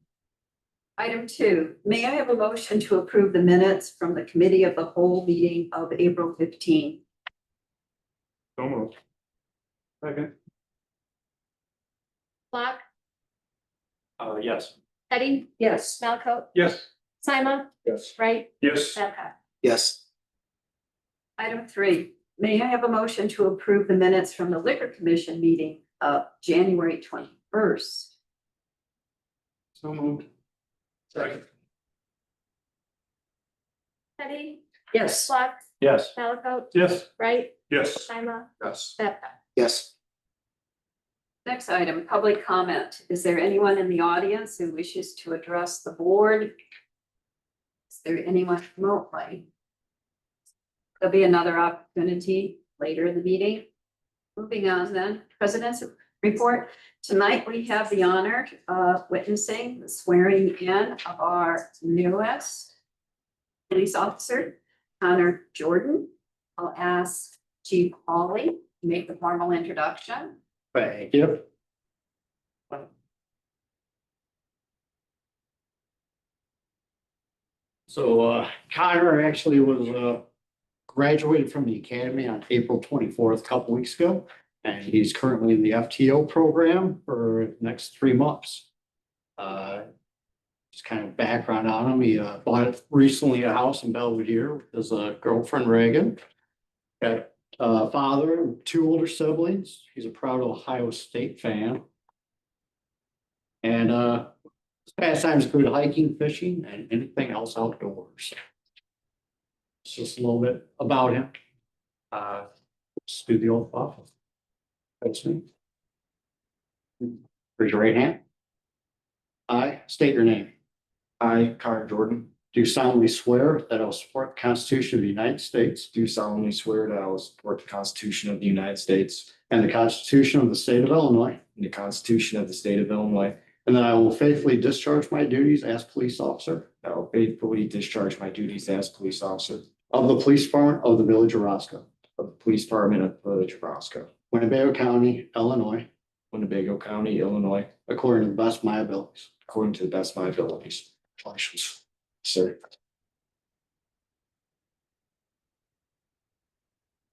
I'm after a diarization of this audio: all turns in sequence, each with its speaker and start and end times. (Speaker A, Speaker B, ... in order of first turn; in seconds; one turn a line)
Speaker A: 1.0-7.0
Speaker B: 8.6-8.9
Speaker B: 10.0-10.3
Speaker C: 12.5-12.8
Speaker B: 14.2-14.7
Speaker C: 15.1-16.5
Speaker A: 15.6-16.0
Speaker B: 16.5-16.9
Speaker C: 17.2-19.3
Speaker B: 18.6-19.0
Speaker D: 19.6-19.9
Speaker A: 21.4-28.1
Speaker B: 29.8-30.3
Speaker B: 31.1-31.4
Speaker C: 34.2-37.5
Speaker A: 34.9-35.3
Speaker B: 35.8-36.1
Speaker B: 36.7-37.1
Speaker B: 37.7-38.1
Speaker C: 38.0-39.3
Speaker B: 38.6-38.9
Speaker A: 41.4-46.5
Speaker A: 47.9-49.5
Speaker A: 51.0-53.7
Speaker A: 54.4-62.7
Speaker A: 63.7-70.4
Speaker E: 70.7-71.4
Speaker E: 77.9-80.2
Speaker E: 80.9-88.7
Speaker E: 89.4-89.8
Speaker E: 90.7-96.2
Speaker E: 97.0-101.8
Speaker E: 103.6-104.3
Speaker E: 104.9-108.4
Speaker E: 109.8-111.3
Speaker E: 112.1-112.5
Speaker E: 113.0-114.1
Speaker E: 115.0-115.4
Speaker E: 117.0-118.2
Speaker E: 119.5-120.5
Speaker D: 121.2-122.3
Speaker E: 122.5-125.9
Speaker D: 125.9-129.3
Speaker E: 129.4-131.4
Speaker D: 131.6-133.4
Speaker E: 133.6-136.7
Speaker D: 136.8-139.6
Speaker E: 139.9-141.8
Speaker D: 142.2-144.1
Speaker E: 144.3-145.9
Speaker D: 146.3-147.8
Speaker E: 147.9-149.3
Speaker D: 149.5-152.7